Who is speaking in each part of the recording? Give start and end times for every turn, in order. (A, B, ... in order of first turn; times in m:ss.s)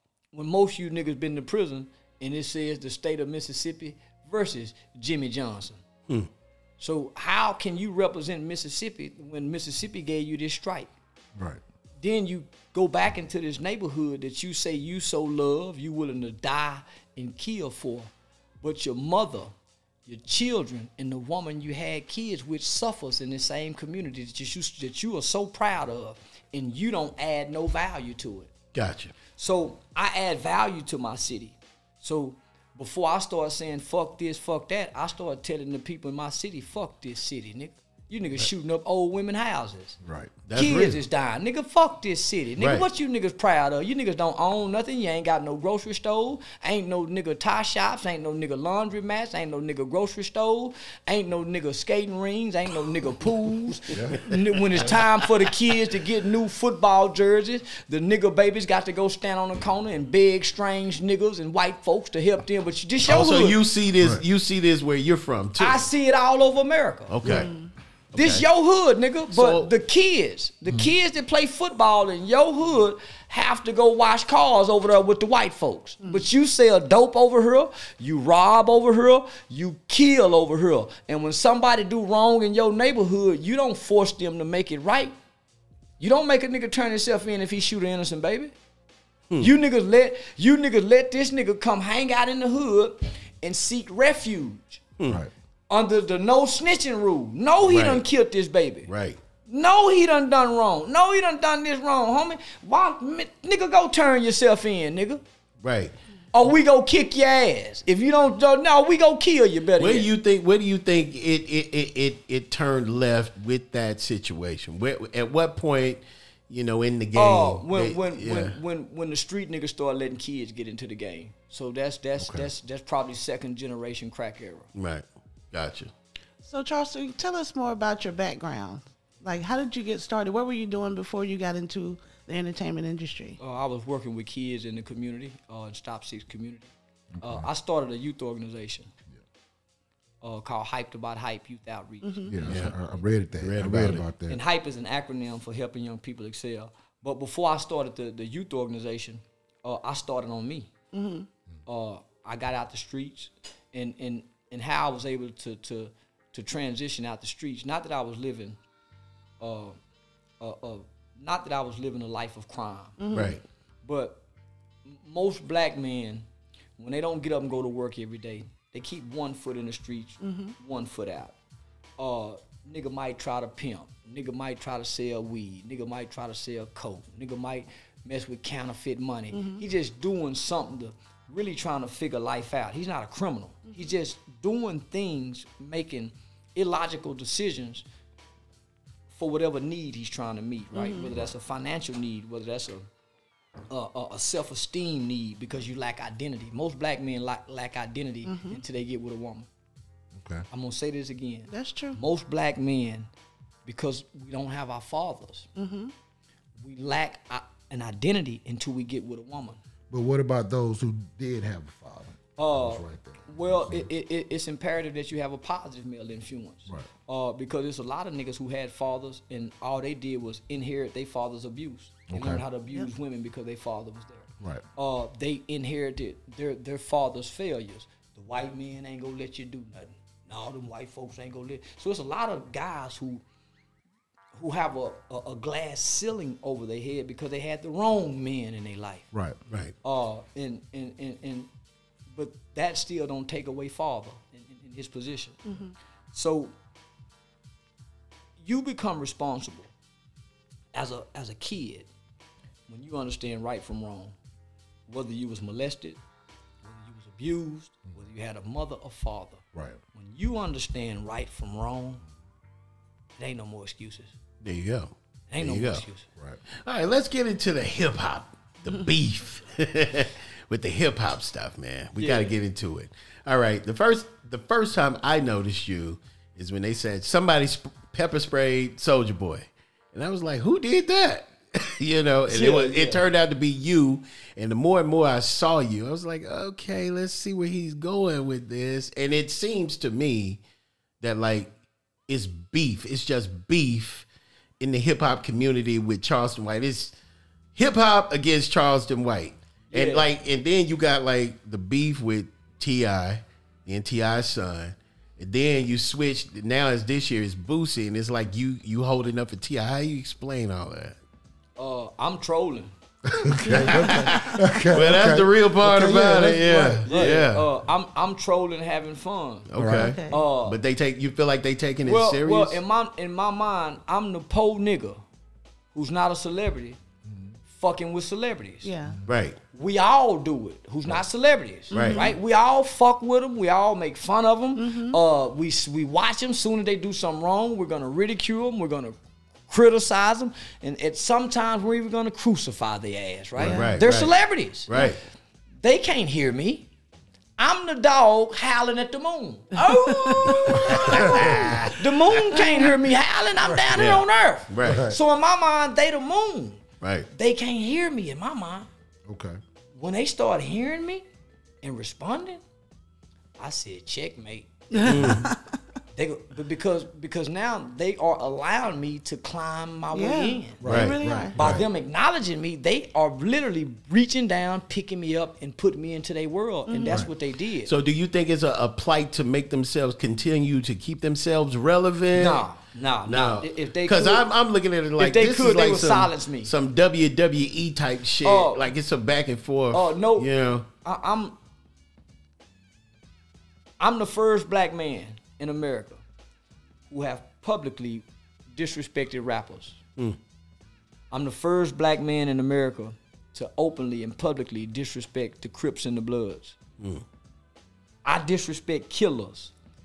0:00.3-0:05.8 A
0:06.8-0:10.9 A
0:12.0-0:18.1 A
0:18.6-0:19.5 A
0:20.1-0:28.5 A
0:28.7-0:29.1 B
0:29.4-0:40.0 A
0:40.0-0:40.3 C
0:40.5-0:41.0 B
0:40.5-1:03.6 A
0:42.6-0:42.8 B
1:03.0-1:05.9 B
1:05.6-1:07.1 A
1:07.1-1:07.5 B
1:07.2-1:07.7 D
1:08.1-1:08.4 B
1:08.1-1:25.2 A
1:09.3-1:09.7 B
1:26.0-1:28.5 A
1:29.4-1:34.8 A
1:35.7-1:38.9 A
1:37.6-1:38.0 B
1:38.9-1:39.2 B
1:39.4-1:45.2 A
1:45.6-1:45.9 B
1:46.3-1:50.1 A
1:49.8-1:58.6 B
1:57.2-2:04.7 A
2:02.2-2:02.5 C
2:04.8-2:05.9 B
2:06.4-2:13.4 D
2:13.4-2:18.9 A
2:17.2-2:17.5 C
2:20.2-2:22.7 A
2:22.0-2:22.4 D
2:22.3-2:24.4 C
2:22.4-2:22.7 B
2:23.4-2:24.0 B
2:24.3-2:30.7 A
2:30.9-2:31.3 D
2:31.7-2:38.6 A
2:39.4-2:39.8 A
2:40.4-2:43.0 A
2:43.0-2:43.4 D
2:43.1-2:43.4 B
2:43.8-2:44.2 A
2:44.9-2:46.3 A
2:46.8-2:51.4 A
2:50.2-2:50.6 D
2:52.0-3:07.8 A
2:59.3-2:59.6 D
3:09.1-3:12.9 A
3:10.7-3:11.1 D
3:13.7-3:19.5 A
3:18.3-3:18.6 D
3:20.1-3:20.5 C
3:20.5-3:23.1 A
3:21.5-3:22.0 D
3:23.6-3:25.5 A
3:25.6-3:25.9 D
3:26.6-3:29.6 A
3:29.9-3:33.9 C
3:32.4-3:53.2 A
3:42.1-3:42.4 C
3:54.3-3:59.1 A
3:59.1-3:59.4 C
3:59.5-3:59.8 B
3:59.8-4:01.5 A
4:02.1-4:05.4 A
4:05.5-4:05.7 D
4:06.1-4:06.5 A
4:08.4-4:09.7 A
4:10.7-4:11.9 A
4:12.7-4:14.2 A
4:14.9-4:16.0 A
4:16.6-4:19.4 A
4:19.5-4:19.8 C
4:19.9-4:22.0 A
4:23.2-4:24.2 A
4:24.4-4:25.9 B
4:25.3-4:26.1 A
4:26.6-4:50.4 B
4:32.0-4:32.4 A
4:42.3-4:43.0 A
4:51.0-4:51.5 B
4:52.1-4:54.1 B
4:54.6-4:56.9 B
4:57.6-5:11.0 B
4:59.7-5:00.1 A
5:11.6-5:12.7 A
5:13.1-5:17.2 C
5:13.4-5:14.2 D
5:13.4-5:17.5 B
5:16.8-5:19.5 A
5:19.5-5:22.6 B
5:19.6-5:20.0 C
5:19.7-5:20.2 D
5:20.1-5:20.6 A
5:21.8-5:25.0 A
5:25.7-5:26.8 A
5:27.1-5:27.3 C
5:27.5-5:28.7 A
5:28.6-5:29.0 D
5:29.1-5:29.4 B
5:29.5-5:39.0 A
5:31.7-5:32.2 D
5:31.7-5:32.1 B
5:34.6-5:35.0 D
5:39.5-5:44.9 A
5:43.4-5:44.1 B
5:43.4-5:43.8 D
5:44.7-5:45.0 B
5:45.6-5:46.7 A
5:47.4-5:58.7 A
5:49.9-5:50.3 D
5:50.5-5:52.2 B
5:52.4-5:52.6 D
5:53.7-5:54.9 B
5:54.6-5:55.0 C
5:56.8-5:57.1 B
5:59.1-5:59.4 C
5:59.8-6:01.1 A
6:01.6-6:02.4 A
6:03.4-6:05.2 A
6:04.7-6:05.6 D
6:04.8-6:05.3 B
6:06.0-6:10.6 A
6:09.9-6:11.4 D
6:10.6-6:11.6 C
6:10.6-6:11.6 B
6:11.4-6:17.7 A
6:16.7-6:17.0 D
6:17.6-6:22.4 B
6:22.2-6:24.3 A
6:23.1-6:30.7 B
6:25.0-6:26.5 A
6:28.2-6:28.6 A
6:29.7-6:30.3 A
6:30.8-6:31.4 A
6:33.8-6:36.0 A
6:36.9-6:39.8 A
6:41.1-6:46.6 A
6:48.0-6:49.5 A